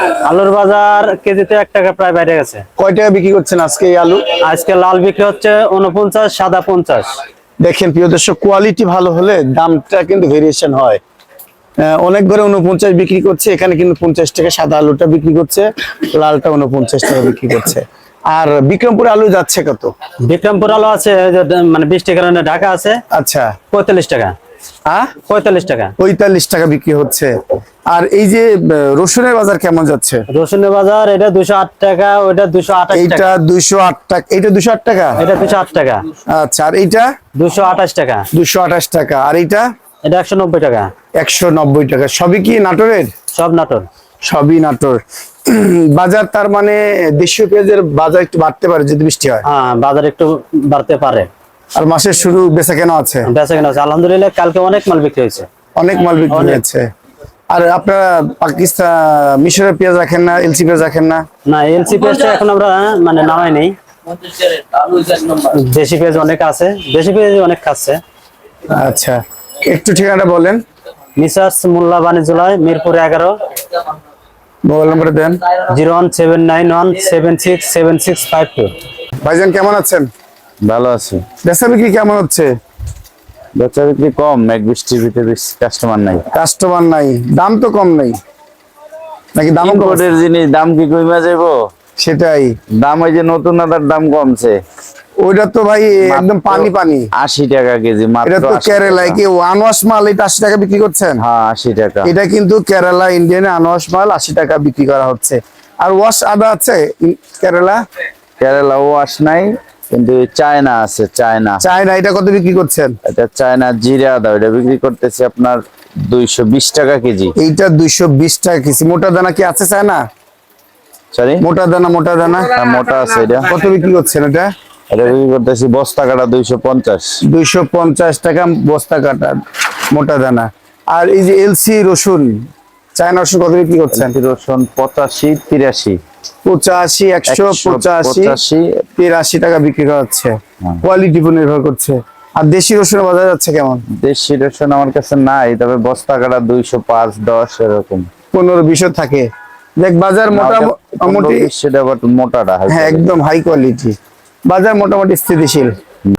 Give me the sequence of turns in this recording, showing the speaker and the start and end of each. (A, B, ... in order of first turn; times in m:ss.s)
0:00.3-0:02.6 A
0:02.8-0:04.2 B
0:04.5-0:07.1 A
0:07.6-0:11.0 B
0:11.8-0:19.9 B
0:20.3-0:23.0 A
0:23.1-0:23.5 B
0:23.7-0:24.3 A
0:24.9-0:25.1 B
0:25.2-0:25.9 A
0:26.0-0:27.3 B
0:27.9-0:30.2 B
0:30.3-0:33.2 A
0:32.9-0:35.2 B
0:35.2-0:36.0 A
0:36.3-0:37.1 B
0:37.4-0:38.3 A
0:38.3-0:39.6 B
0:40.0-0:40.9 A
0:41.2-0:43.1 B
0:43.4-0:43.9 A
0:44.2-0:49.4 B
0:49.4-0:51.3 A
0:51.8-0:53.3 B
0:53.3-0:55.5 A
0:55.8-0:56.8 B
0:56.3-0:56.6 A
0:57.5-1:01.2 B
1:01.5-1:03.7 A
1:04.9-1:08.0 A
1:08.7-1:10.6 B
1:11.2-1:13.3 A
1:14.6-1:15.4 B
1:15.7-1:18.7 A
1:19.2-1:20.1 B
1:20.6-1:21.2 C
1:21.4-1:22.5 B
1:23.6-1:26.2 C
1:26.3-1:28.1 B
1:29.3-1:30.0 B
1:29.6-1:31.5 C
1:32.0-1:32.5 B
1:32.8-1:34.5 C
1:35.2-1:37.1 B
1:36.1-1:39.2 C
1:38.2-1:41.2 B
1:41.2-1:42.1 C
1:42.0-1:47.8 B
1:48.4-1:51.6 C
1:51.6-1:52.9 B
1:53.1-1:57.3 C
1:57.4-2:00.0 B
2:01.1-2:01.4 C
2:01.4-2:02.5 B
2:02.6-2:03.5 C
2:03.0-2:03.4 A
2:03.5-2:04.5 B
2:04.9-2:07.1 C
2:07.3-2:09.4 B
2:09.9-2:12.3 B
2:12.9-2:14.1 B
2:13.9-2:16.0 C
2:16.4-2:18.4 B
2:17.3-2:18.6 C
2:19.0-2:23.8 B
2:24.0-2:28.1 C
2:28.3-2:29.3 B
2:29.8-2:31.5 B
2:30.3-2:33.1 C
2:32.7-2:34.0 B
2:34.5-2:35.7 B